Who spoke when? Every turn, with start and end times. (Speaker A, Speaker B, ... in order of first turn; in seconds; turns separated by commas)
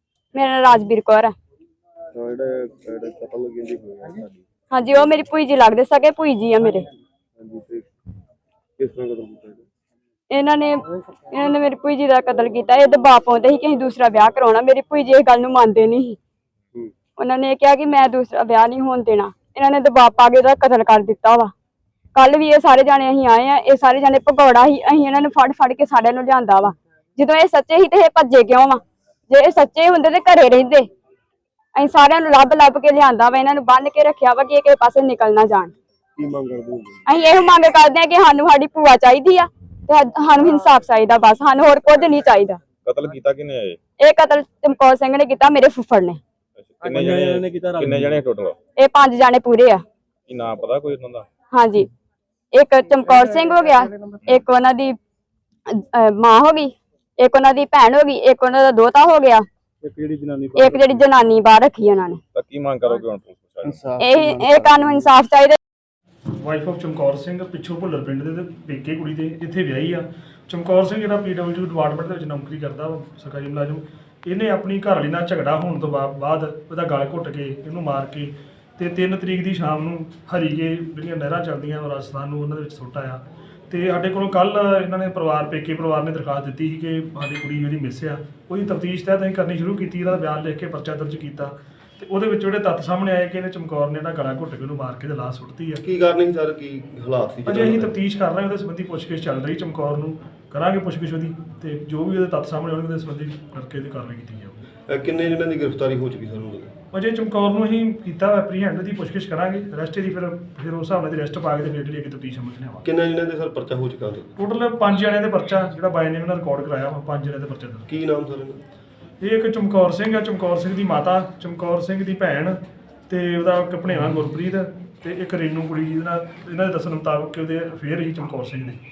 Speaker A: 0.3-1.3, Speaker B: 2.1-4.4, Speaker A: 4.7-6.9, Speaker B: 7.4-7.9, Speaker B: 8.8-9.6, Speaker A: 10.3-16.2, Speaker A: 17.2-21.5, Speaker A: 22.1-30.9, Speaker A: 31.8-35.7, Speaker B: 36.2-37.0, Speaker A: 37.1-42.6, Speaker C: 42.9-43.8, Speaker A: 44.0-46.2, Speaker C: 46.6-48.6, Speaker D: 46.8-48.2, Speaker A: 48.8-49.8, Speaker C: 50.3-51.3, Speaker A: 51.5-51.9, Speaker A: 52.5-55.0, Speaker A: 55.7-59.5, Speaker D: 59.8-61.1, Speaker A: 60.5-62.2, Speaker C: 62.3-63.8, Speaker B: 63.6-65.1, Speaker A: 64.0-65.6, Speaker E: 66.4-95.8, Speaker B: 95.8-97.9, Speaker E: 97.5-104.6, Speaker B: 104.9-106.7, Speaker E: 106.9-112.8, Speaker B: 112.8-114.3, Speaker E: 114.4-117.8, Speaker B: 117.9-118.6, Speaker E: 119.2-122.6, Speaker E: 123.1-128.8